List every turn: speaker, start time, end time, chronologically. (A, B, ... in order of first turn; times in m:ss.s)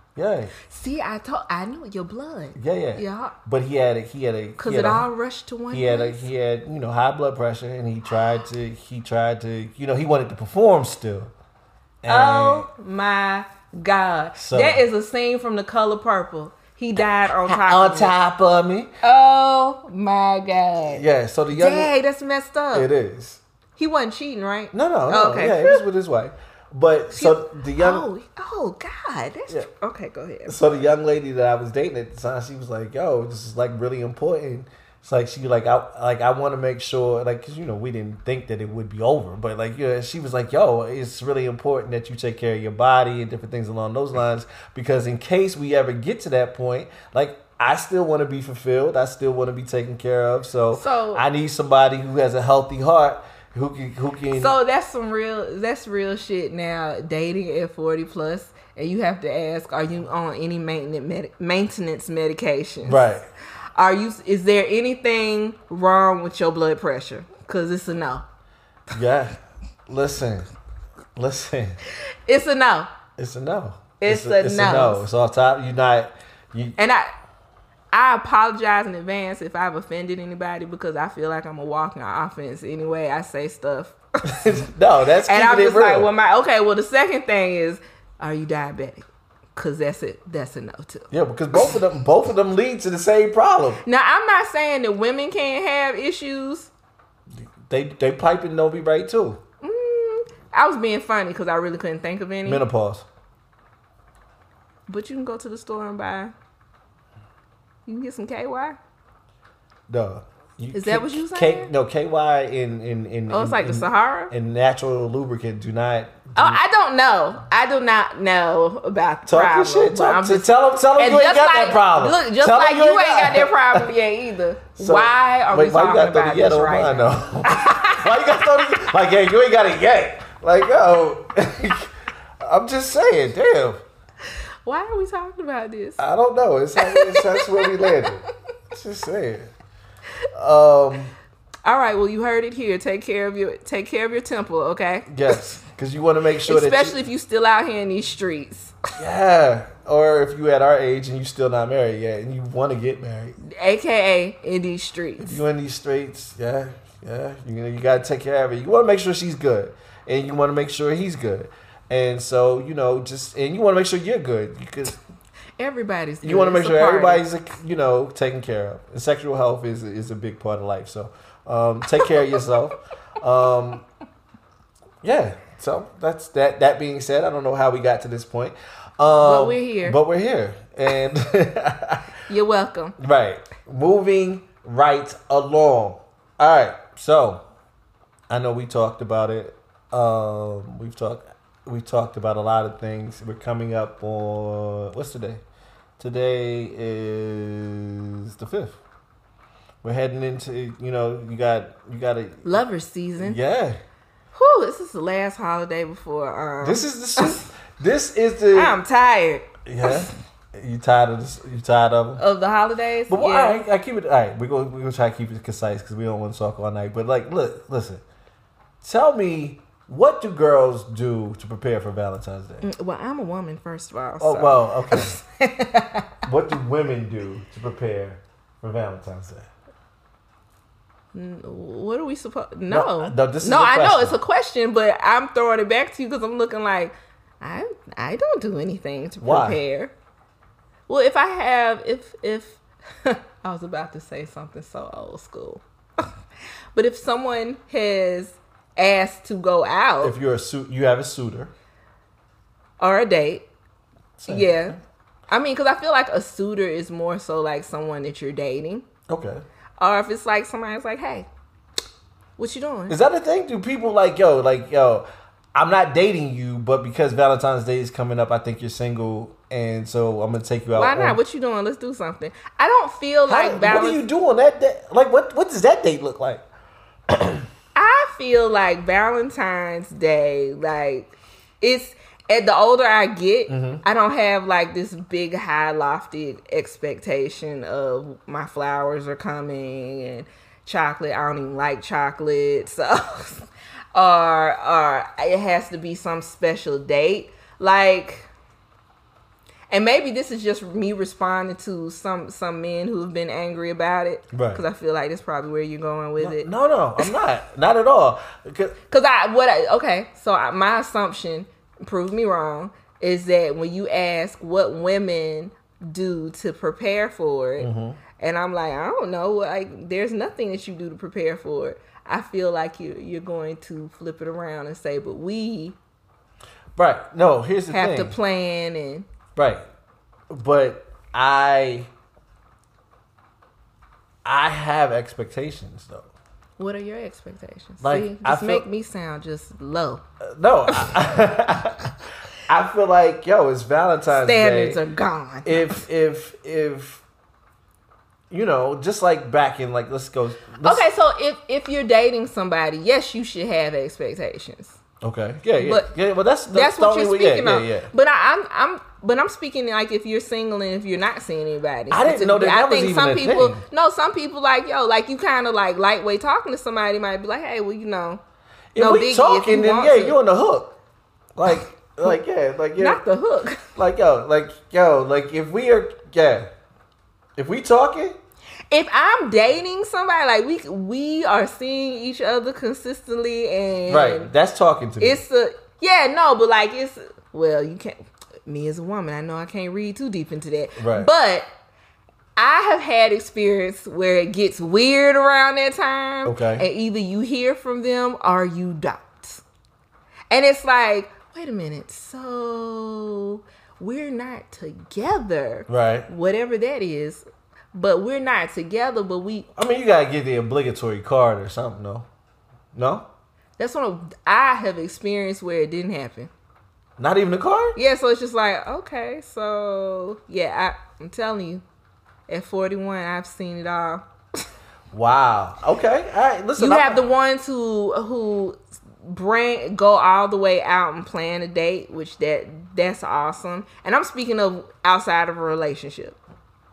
0:00.2-0:00.5 A
0:00.6-0:03.4 B
0:02.6-0:05.1 A
0:04.6-0:06.3 B
0:05.7-0:11.3 A
0:12.0-0:12.7 A
0:12.1-0:18.1 B
0:14.4-0:14.8 A
0:17.4-0:18.9 A
0:19.0-0:22.9 B
0:20.9-0:21.9 A
0:22.7-0:23.4 A
0:23.8-0:25.8 B
0:24.7-0:28.1 A
0:27.1-0:30.6 B
0:30.5-0:54.6 A
0:50.7-0:51.2 B
0:54.3-1:03.1 B
1:02.8-1:03.3 A
1:03.8-1:08.3 B
1:08.9-1:10.5 A
1:11.2-1:11.8 A
1:12.3-1:12.9 B
1:13.2-1:16.8 A
1:14.0-1:15.1 B
1:16.8-1:17.1 B
1:17.9-1:24.6 B
1:24.3-1:26.1 A
1:25.3-1:31.7 B
1:31.1-1:33.8 A
1:33.8-1:36.7 B
1:37.7-1:39.4 A
1:39.6-1:42.6 B
1:42.4-1:43.1 A
1:44.9-1:46.3 B
1:47.9-1:48.8 B
1:49.9-1:56.6 A
1:50.7-1:51.7 B
1:53.3-1:54.3 B
1:56.4-2:08.0 B
1:59.3-2:03.9 A
2:04.8-2:13.8 A
2:14.6-2:16.0 B
2:16.0-2:19.5 A
2:16.8-2:18.1 B
2:20.3-2:21.1 A
2:21.6-2:25.4 B
2:25.1-2:27.0 A
2:26.5-2:28.8 B
2:29.0-2:33.4 A
2:33.4-2:35.4 B
2:35.2-2:45.0 A
2:45.6-2:47.3 B
2:46.2-2:53.9 A
2:55.0-3:02.2 A
2:59.1-3:00.0 B
3:02.3-3:03.0 B
3:03.0-3:07.4 A
3:08.3-3:15.4 A
3:16.0-3:18.8 A
3:19.8-3:22.6 A
3:22.4-3:23.4 B
3:23.2-3:23.8 A
3:24.3-3:27.5 B
3:26.6-3:28.8 A
3:28.5-3:30.1 B
3:29.7-3:32.2 A
3:32.2-3:33.6 B
3:33.1-3:38.0 A
3:38.8-3:42.6 A
3:42.6-3:46.2 B
3:44.2-3:45.2 A
3:46.2-3:49.5 A
3:51.1-3:59.9 B
3:52.7-3:54.2 A
3:59.2-3:59.6 A
4:00.9-4:06.1 B
4:06.8-4:10.2 B
4:10.0-4:11.5 A
4:12.8-4:13.5 B
4:14.2-4:14.8 A
4:14.3-4:14.8 B
4:15.3-4:18.8 B
4:19.1-4:19.4 A
4:19.8-4:21.3 B
4:22.4-4:23.0 B
4:22.9-4:31.2 A
4:30.7-4:34.0 B
4:33.3-4:36.4 A
4:37.1-4:37.5 A
4:37.8-4:58.3 B
4:43.5-4:43.8 A
4:59.7-5:06.5 B
5:04.3-5:04.6 A
5:06.2-5:08.8 A
5:08.9-5:25.8 B
5:17.6-5:18.0 A
5:26.8-5:28.2 A
5:27.7-5:29.1 B
5:29.4-5:29.6 A
5:30.3-5:31.9 A
5:34.2-5:36.1 A
5:36.6-5:40.0 B
5:37.8-5:38.7 A
5:40.2-5:41.9 A
5:42.5-5:44.8 A
5:44.1-5:45.8 B
5:45.4-5:47.0 A
5:48.3-5:50.8 A
5:50.6-5:54.8 B
5:55.0-5:57.9 A
5:55.6-5:55.9 B
5:56.5-6:08.2 B
6:01.9-6:03.6 A
6:08.7-6:10.8 A
6:08.8-6:10.2 B
6:11.4-6:13.0 A
6:12.8-6:13.7 B
6:13.8-6:16.5 A
6:17.4-6:18.2 A
6:18.7-6:24.3 B
6:23.9-6:25.2 A
6:25.0-6:31.5 B
6:30.8-6:31.1 A
6:32.4-6:39.4 B
6:36.2-6:36.6 A
6:40.3-6:49.5 B
6:45.7-6:46.1 A
6:49.6-6:52.1 A
6:52.7-6:53.1 A
6:53.6-6:56.3 B
6:57.0-6:57.8 A
6:57.8-7:01.6 B
7:02.3-7:04.0 B
7:04.9-7:07.1 A
7:06.6-7:16.2 B